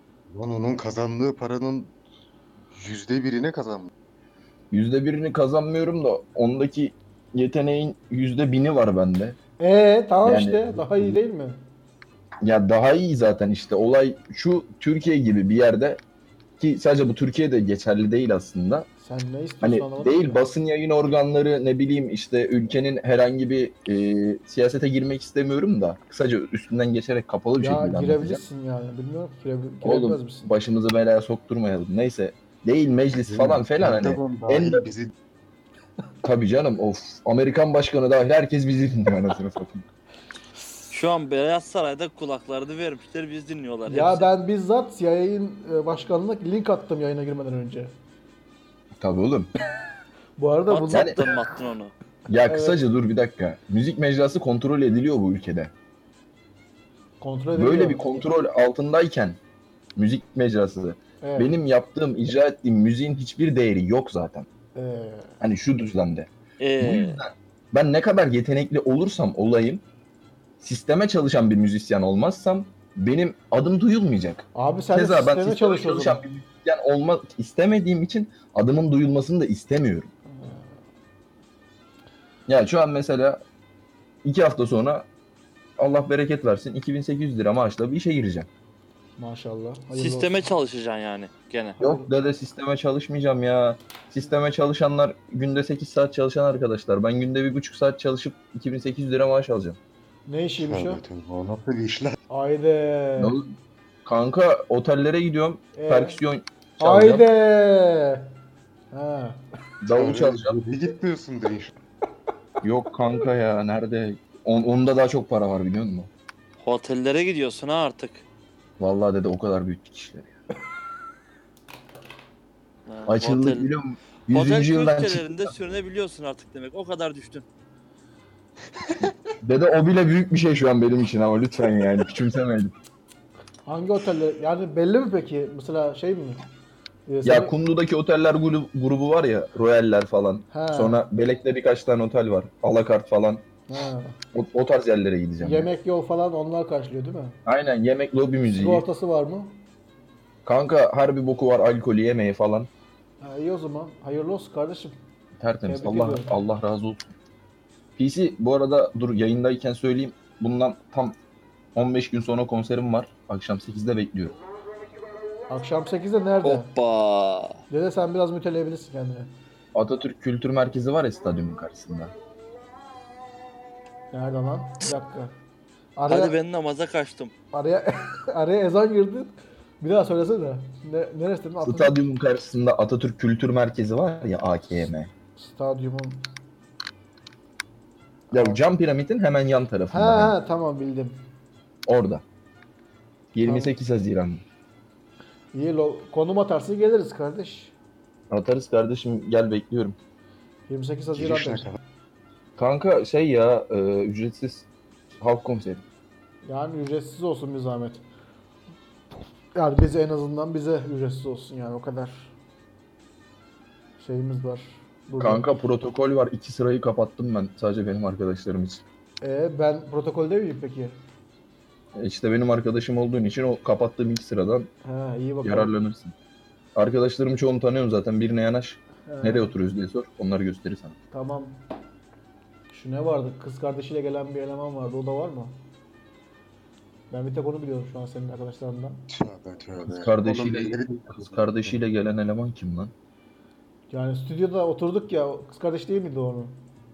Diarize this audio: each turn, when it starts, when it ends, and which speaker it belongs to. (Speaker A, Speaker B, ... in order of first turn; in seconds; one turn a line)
Speaker A: 0.3-1.9
Speaker A: 2.7-3.9
Speaker B: 4.7-9.4
Speaker C: 9.6-11.6
Speaker B: 10.2-11.2
Speaker B: 12.4-16.0
Speaker B: 16.6-18.9
Speaker C: 19.0-20.4
Speaker B: 19.6-28.4
Speaker C: 27.6-30.5
Speaker B: 29.8-34.8
Speaker A: 33.2-35.1
Speaker B: 36.2-39.9
Speaker D: 40.9-44.3
Speaker C: 43.9-47.9
Speaker B: 49.0-49.5
Speaker C: 50.4-51.2
Speaker D: 50.7-51.9
Speaker B: 50.9-51.2
Speaker B: 52.3-55.7
Speaker C: 52.5-52.8
Speaker C: 57.2-58.2
Speaker B: 57.5-59.4
Speaker B: 60.0-64.5
Speaker C: 61.2-61.5
Speaker C: 64.7-65.4
Speaker B: 65.4-69.8
Speaker D: 66.6-67.2
Speaker B: 70.6-80.1
Speaker C: 74.5-76.2
Speaker C: 80.3-80.7
Speaker B: 82.5-83.4
Speaker B: 84.2-85.1
Speaker B: 85.8-88.5
Speaker C: 89.2-90.5
Speaker D: 89.9-91.8
Speaker C: 91.8-92.1
Speaker B: 91.8-99.8
Speaker C: 100.3-101.0
Speaker A: 100.6-102.2
Speaker C: 102.3-103.4
Speaker B: 103.2-107.2
Speaker C: 105.8-106.2
Speaker C: 106.8-108.3
Speaker C: 108.9-109.4
Speaker B: 109.8-110.6
Speaker A: 109.9-111.7
Speaker B: 112.6-116.1
Speaker D: 116.6-118.2
Speaker B: 118.8-120.3
Speaker D: 122.9-123.7
Speaker B: 123.1-125.5
Speaker D: 124.3-127.4
Speaker B: 129.4-132.7
Speaker C: 133.7-136.4
Speaker C: 137.1-137.5
Speaker B: 137.2-143.4
Speaker C: 140.5-141.0
Speaker C: 143.7-144.2
Speaker B: 144.3-145.7
Speaker C: 145.4-147.4
Speaker B: 147.4-148.8
Speaker C: 148.4-149.6
Speaker B: 150.4-152.7
Speaker C: 153.2-154.9
Speaker B: 155.4-157.1
Speaker C: 155.7-156.3
Speaker B: 158.0-161.2
Speaker B: 161.7-164.4
Speaker C: 165.5-166.7
Speaker D: 166.4-167.6
Speaker C: 167.7-169.3
Speaker B: 169.7-172.1
Speaker C: 174.1-175.3
Speaker C: 176.0-176.4
Speaker D: 176.1-177.3
Speaker C: 177.5-182.0
Speaker B: 181.6-185.1
Speaker C: 185.4-186.2
Speaker C: 188.3-188.6
Speaker B: 188.3-190.3
Speaker C: 189.9-191.2
Speaker B: 191.8-192.2
Speaker B: 193.3-194.4
Speaker C: 193.4-193.7
Speaker C: 195.5-197.7
Speaker B: 198.3-200.0
Speaker C: 200.7-201.7
Speaker A: 201.1-201.8
Speaker B: 202.6-204.7
Speaker B: 205.2-205.8
Speaker C: 206.4-208.0
Speaker C: 209.5-212.3
Speaker C: 214.0-215.5
Speaker B: 215.2-218.8
Speaker C: 219.2-221.0
Speaker B: 221.9-224.7
Speaker C: 224.8-225.7
Speaker B: 225.4-226.1
Speaker B: 226.7-230.9
Speaker C: 229.1-229.5
Speaker C: 231.1-231.6
Speaker C: 232.7-235.6
Speaker C: 237.1-239.1
Speaker A: 239.1-241.8
Speaker B: 239.9-242.9
Speaker C: 243.9-246.6